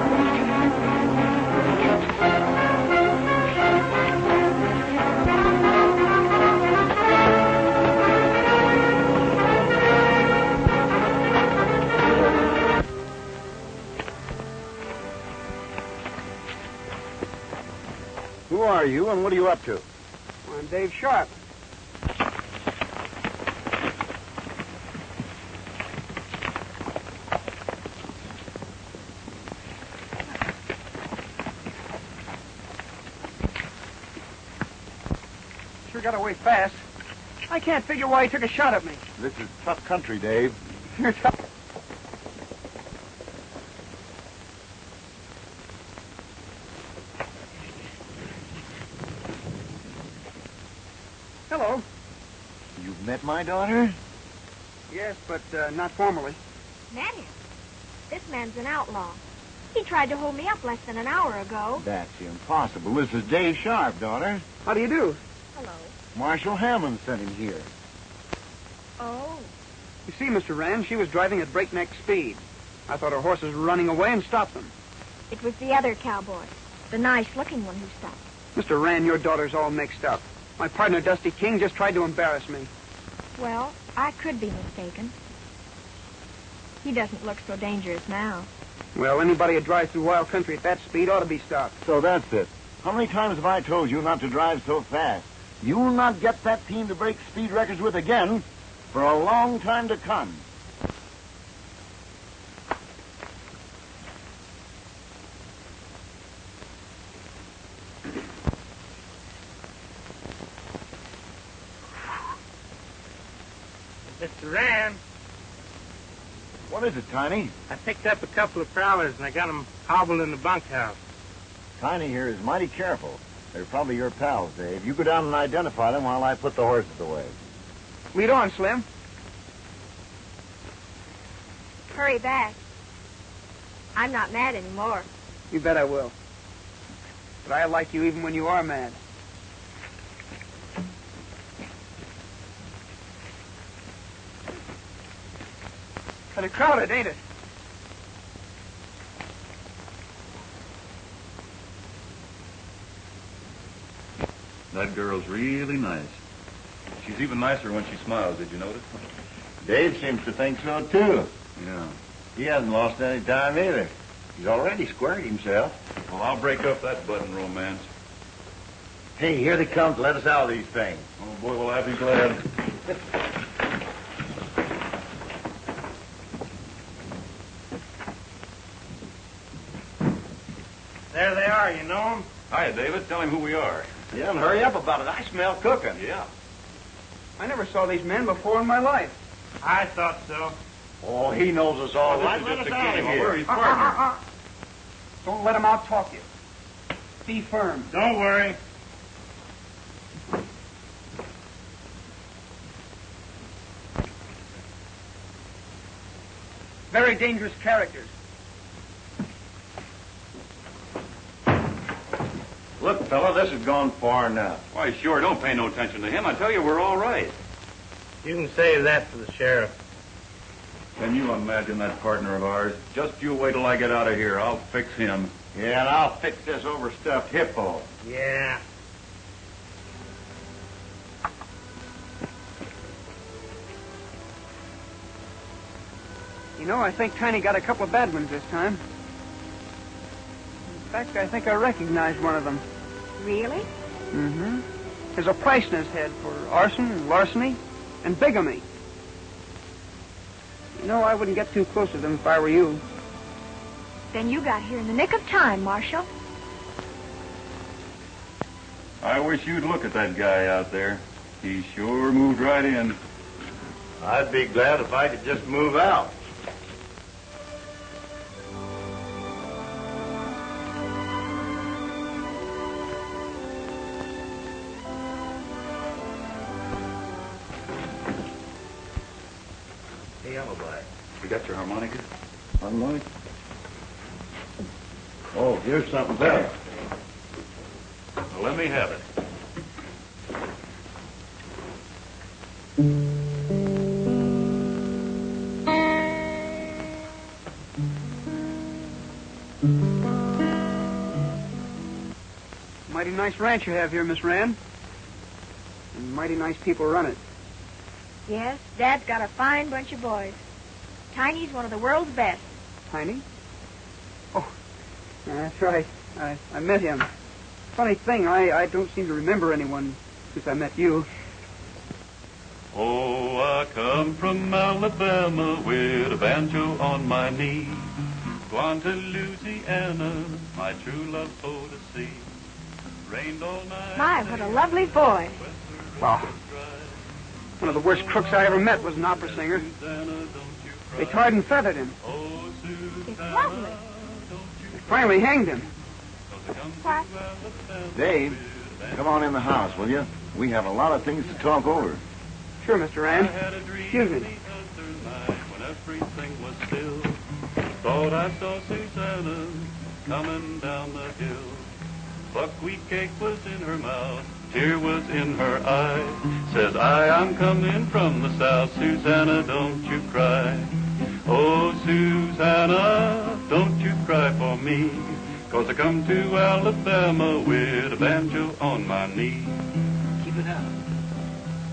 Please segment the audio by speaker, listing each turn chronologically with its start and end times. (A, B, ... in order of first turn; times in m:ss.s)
0:18.5-0:19.8 A
0:20.4-0:21.3 B
0:35.9-0:36.8 B
0:37.5-0:39.0 B
0:39.2-0:40.6 A
0:41.0-0:41.3 B
0:51.5-0:51.8 B
0:52.8-0:54.0 A
0:54.9-0:56.4 B
0:56.9-0:57.3 C
0:58.1-0:59.2 C
0:59.7-1:01.8 C
1:01.8-1:04.4 A
1:04.6-1:05.2 B
1:05.5-1:05.9 C
1:06.1-1:07.7 A
1:09.0-1:09.5 C
1:10.1-1:14.7 B
1:15.3-1:18.2 C
1:18.5-1:22.7 B
1:23.4-1:25.1 C
1:26.8-1:28.5 C
1:28.9-1:31.7 B
1:31.8-1:40.4 A
1:54.2-1:55.0 D
1:56.7-1:57.5 A
1:57.7-2:01.0 D
2:01.8-2:07.3 A
2:08.1-2:08.8 B
2:11.9-2:12.6 C
2:13.9-2:15.1 C
2:15.5-2:16.1 B
2:17.4-2:19.0 B
2:26.3-2:27.2 B
2:34.7-2:36.2 E
2:37.0-2:38.8 E
2:39.6-2:41.3 A
2:41.6-2:41.9 E
2:42.4-2:45.8 A
2:46.1-2:47.8 E
2:49.2-2:51.0 A
2:51.2-2:52.4 E
3:01.1-3:02.3 D
3:02.5-3:03.9 E
3:04.1-3:06.0 A
3:06.0-3:06.3 E
3:07.4-3:09.2 B
3:09.6-3:10.6 D
3:11.0-3:13.4 A
3:12.0-3:14.0 E
3:13.5-3:14.1 B
3:15.2-3:16.2 B
3:17.2-3:17.9 B
3:17.9-3:18.6 D
3:26.9-3:28.1 B
3:32.8-3:34.6 A
3:34.7-3:37.3 E
3:38.2-3:39.7 D
3:41.0-3:45.3 E
3:45.5-3:47.9 A
3:48.0-3:48.6 D
3:56.6-3:58.8 B
4:00.7-4:02.6 B
4:03.2-4:03.7 C
4:04.1-4:04.6 B
4:05.2-4:08.6 B
4:10.8-4:12.8 B
4:14.1-4:16.1 C
4:19.0-4:23.0 E
4:24.0-4:26.2 A
4:40.2-4:42.0 E
4:42.6-4:43.0 A
4:45.3-4:46.5 A
4:48.3-4:49.0 E
5:02.9-5:04.6 B
5:05.9-5:07.2 B
5:08.3-5:10.4 C
5:11.1-5:12.5 C
5:12.9-5:13.2 B
5:15.2-5:17.1 B
5:17.8-5:21.1 B
5:22.7-5:27.9 E
5:28.5-5:32.4 E
5:33.0-5:37.0 E
5:34.0-5:35.4 C
5:37.6-5:39.6 B
5:37.6-5:41.4 E
5:41.0-5:42.0 B
5:42.0-5:45.3 E
5:43.1-5:43.8 C
5:44.8-5:45.7 B
5:46.3-5:49.9 E
5:47.9-5:48.4 A
5:48.9-5:52.0 A
5:52.6-5:53.3 B
5:53.1-5:57.2 E
5:53.9-5:54.3 B
5:57.8-6:01.7 E
6:02.3-6:19.7 E